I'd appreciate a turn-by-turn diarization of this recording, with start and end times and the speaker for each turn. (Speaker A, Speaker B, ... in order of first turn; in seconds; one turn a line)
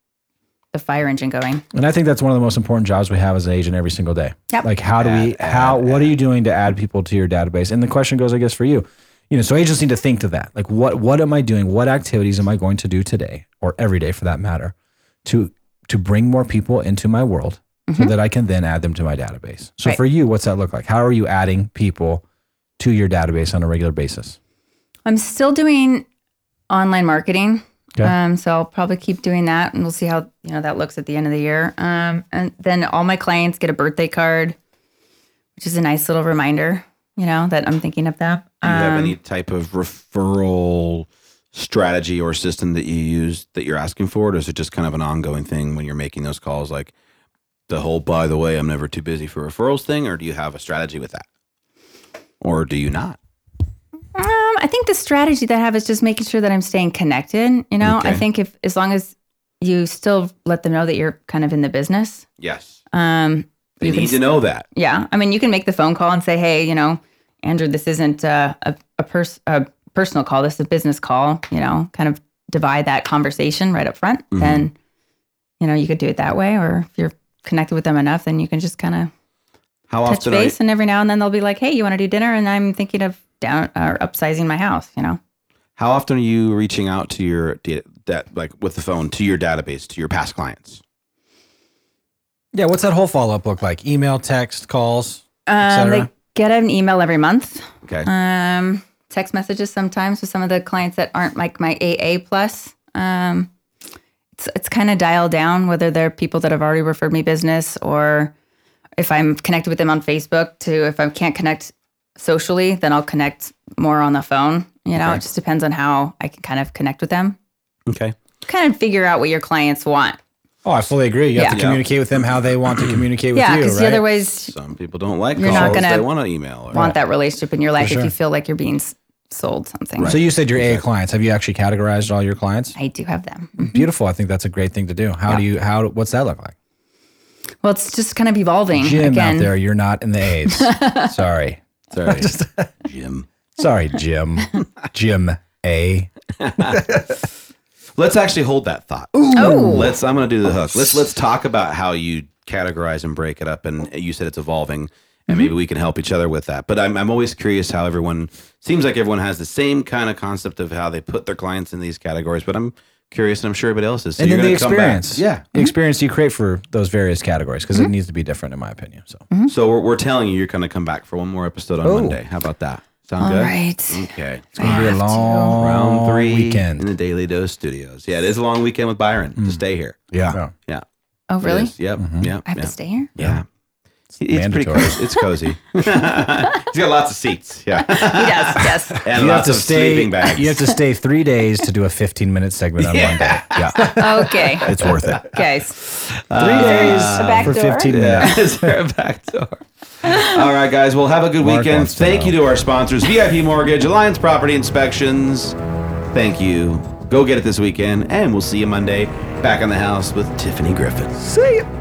Speaker A: 0.7-1.6
Speaker B: 1.7-14.7
Speaker C: 5.0-6.1
Speaker B: 15.2-22.2
Speaker A: 17.9-18.1
Speaker B: 22.8-24.4
Speaker A: 25.1-26.1
Speaker A: 26.7-34.6
Speaker A: 35.6-39.1
Speaker C: 38.6-46.9
Speaker C: 47.7-51.3
Speaker C: 52.4-53.2
Speaker A: 54.1-62.3
Speaker C: 57.8-58.2
Speaker C: 62.4-62.8
Speaker A: 62.9-74.7
Speaker C: 63.8-64.7
Speaker C: 74.3-74.7
Speaker A: 75.6-79.1
Speaker C: 79.9-80.6
Speaker A: 80.1-85.2
Speaker C: 85.8-90.8
Speaker B: 92.5-96.1
Speaker A: 95.5-103.5
Speaker C: 97.8-98.1
Speaker A: 104.3-108.3
Speaker A: 109.0-117.4
Speaker C: 117.9-118.2
Speaker A: 118.5-120.2
Speaker B: 120.6-124.1
Speaker A: 121.3-121.6
Speaker C: 121.5-121.9
Speaker A: 123.3-124.6
Speaker C: 124.4-126.9
Speaker A: 125.3-130.2
Speaker B: 125.4-125.9
Speaker B: 126.7-127.0
Speaker B: 127.8-128.1
Speaker C: 130.0-130.8
Speaker B: 130.0-132.8
Speaker A: 132.8-133.8
Speaker B: 133.6-136.6
Speaker A: 137.6-139.6
Speaker B: 138.7-142.7
Speaker A: 140.5-141.2
Speaker C: 141.9-142.3
Speaker C: 142.8-143.3
Speaker B: 143.6-147.1
Speaker C: 146.4-146.8
Speaker C: 148.0-165.5
Speaker B: 149.2-150.0
Speaker A: 149.3-149.9
Speaker B: 164.2-169.3
Speaker C: 169.5-174.9
Speaker B: 171.8-172.2
Speaker A: 173.2-175.6
Speaker B: 174.6-176.8
Speaker C: 175.6-180.8
Speaker B: 180.1-180.5
Speaker A: 181.3-181.7
Speaker C: 181.4-183.4
Speaker B: 182.0-182.3
Speaker A: 182.5-183.1
Speaker B: 184.2-185.1
Speaker C: 184.2-190.7
Speaker A: 187.8-189.1
Speaker B: 189.1-195.3
Speaker C: 192.8-194.0
Speaker A: 193.8-195.7
Speaker C: 194.6-205.6
Speaker B: 196.4-198.5
Speaker A: 196.5-198.5
Speaker A: 200.1-200.3
Speaker B: 201.4-202.4
Speaker C: 206.1-211.3
Speaker B: 211.2-211.7